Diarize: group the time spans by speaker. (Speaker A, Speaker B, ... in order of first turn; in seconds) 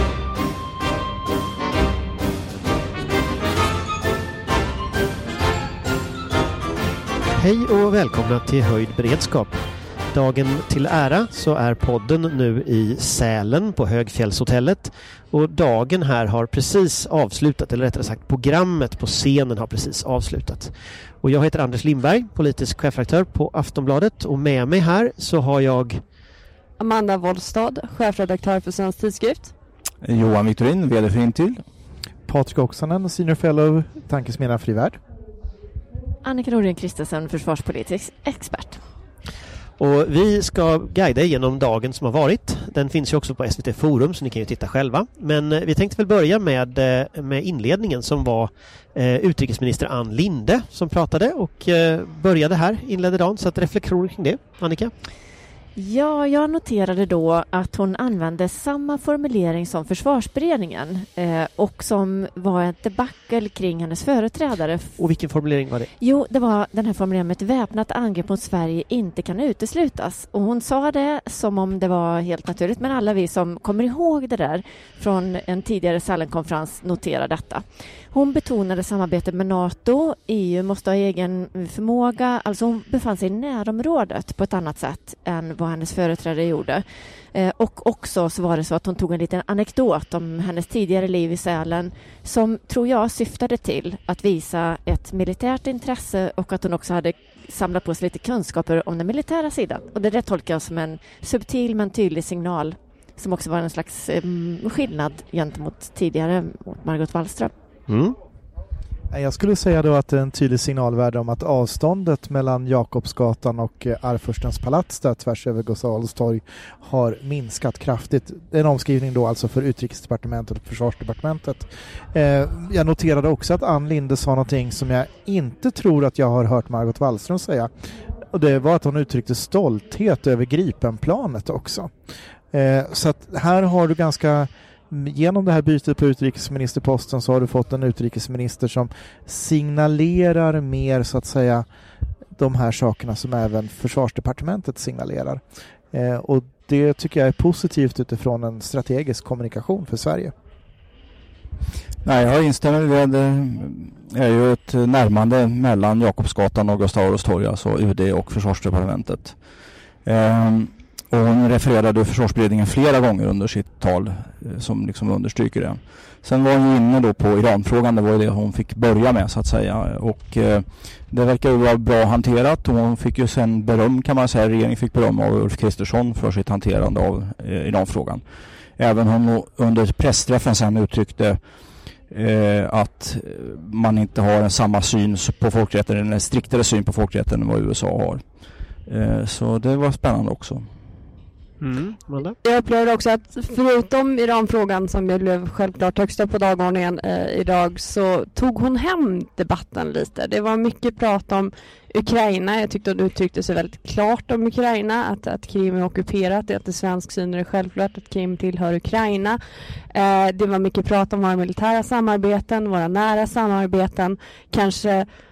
Speaker A: 7.3-9.6, 10.1-26.0, 39.8-54.9, 65.0-65.9, 107.9-108.2, 191.6-192.3
Speaker B: 26.8-29.5, 192.4-209.4, 209.9-215.1
Speaker C: 30.0-31.6, 152.0-159.4, 160.0-178.2, 178.8-181.4, 182.1-188.2, 188.9-190.7
Speaker D: 32.3-35.0, 109.1-127.7, 128.3-131.9, 132.5-141.7, 142.4-150.3
Speaker E: 36.2-38.8, 55.8-65.0, 66.0-86.8, 87.3-107.5